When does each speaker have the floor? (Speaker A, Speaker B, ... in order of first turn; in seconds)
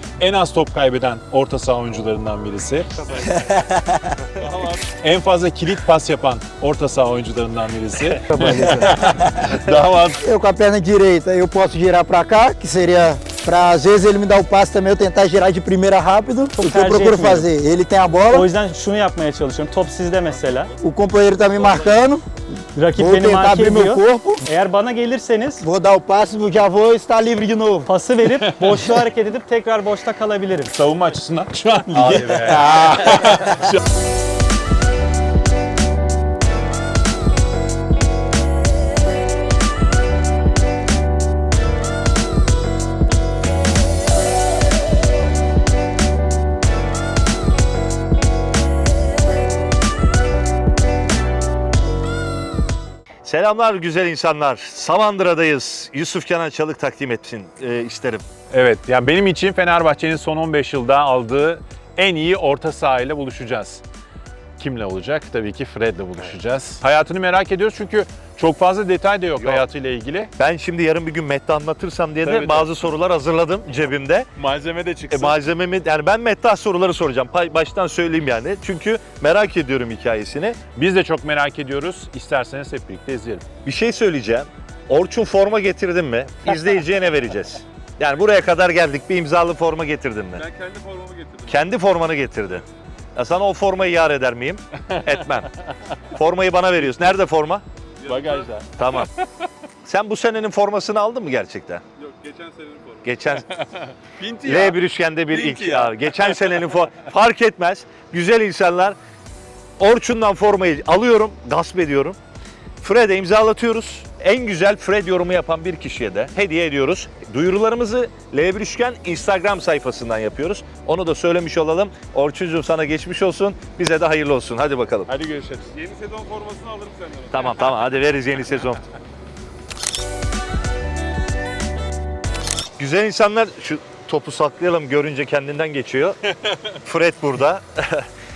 Speaker A: 0.2-2.9, 4.9-8.6, 28.3-28.7, 30.7-32.6, 33.1-33.5, 58.5-63.8, 64.6-70.3, 74.4-75.3, 80.8-83.5, 98.1-98.7, 104.2-104.5, 105.5-105.9, 125.1-126.0, 126.7-127.0
Speaker B: 3.2-4.2, 10.2-18.5, 20.8-22.2, 23.0-24.4, 25.6-27.9
Speaker C: 8.2-9.0, 16.6-17.5, 18.3-20.7, 22.8-25.7, 27.9-30.8
Speaker D: 8.8-9.1, 32.1-32.9, 72.3-72.7, 90.4-91.5, 98.1-98.7, 105.3-105.7, 125.8-126.1
Speaker E: 31.9-33.1, 53.2-58.2, 69.4-69.7, 70.4-74.3, 75.1-80.6, 83.6-90.5, 91.5-92.6, 93.2-95.5, 96.1-97.6, 98.8-99.1, 99.8-101.8, 103.0-103.5, 104.4-109.0, 109.8-112.2, 112.8-125.1, 127.3-128.8, 132.8-138.1